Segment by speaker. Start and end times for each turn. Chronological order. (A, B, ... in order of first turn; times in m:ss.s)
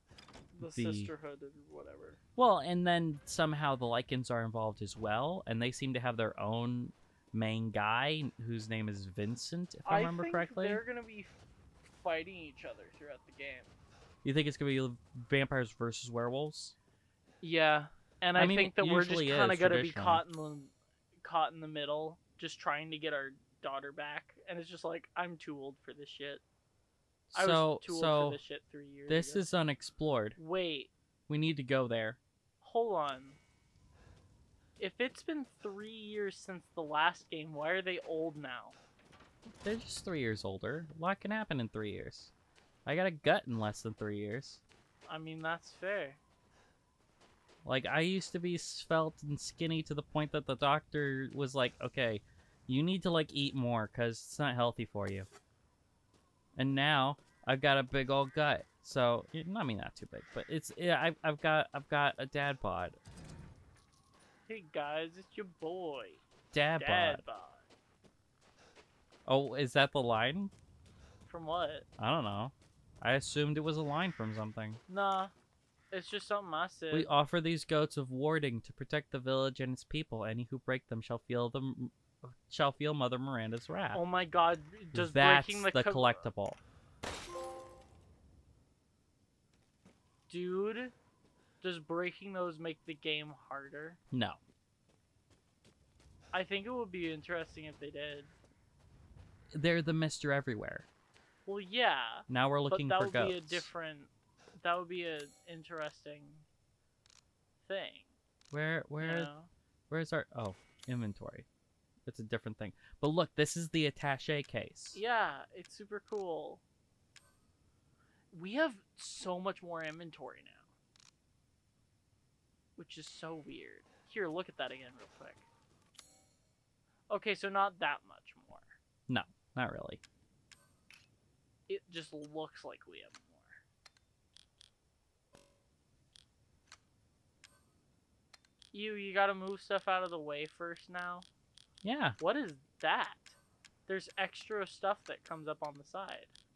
0:00.5-0:02.2 A
0:00.6-0:01.1 B
0:02.4-0:10.8 B
0:09.8-0:11.4 A
0:11.9-0:13.7 A
0:14.2-0:16.8 B
0:17.4-0:26.4 A
0:18.4-0:20.2 B
0:27.3-0:28.4 B
0:27.3-0:29.5 A
0:29.1-0:30.4 B
0:30.4-0:30.9 A
0:31.3-0:32.2 B
0:32.6-0:33.4 A
0:34.8-0:38.8 A
0:39.6-0:42.3 B
0:42.9-0:44.6 B
0:45.1-0:46.2 A
0:47.6-0:55.3 B
0:56.6-1:03.0 B
1:04.5-1:06.2 A
1:06.5-1:07.2 B
1:06.8-1:07.6 A
1:09.3-1:10.5 B
1:11.3-1:11.9 A
1:12.0-1:14.8 B
1:14.9-1:15.3 A
1:15.9-1:17.1 A
1:16.9-1:24.0 B
1:23.9-1:26.3 A
1:24.9-1:26.6 B
1:30.3-1:30.9 A
1:31.6-1:34.0 A
1:34.1-1:34.4 B
1:36.3-1:38.3 A
1:39.5-1:40.9 B
1:41.5-1:46.4 A
1:42.3-1:43.7 B
1:47.6-1:48.1 A
1:48.5-1:49.3 B
1:49.0-1:49.5 A
1:49.9-1:51.5 B
1:52.1-1:55.0 B
1:54.9-1:56.6 A
1:58.3-2:00.7 A
2:02.8-2:05.5 A
2:07.1-2:08.8 A
2:09.1-2:10.0 B
2:11.7-2:13.6 A
2:18.7-2:21.3 A
2:21.8-2:22.2 B
2:22.2-2:23.4 A
2:23.9-2:26.3 A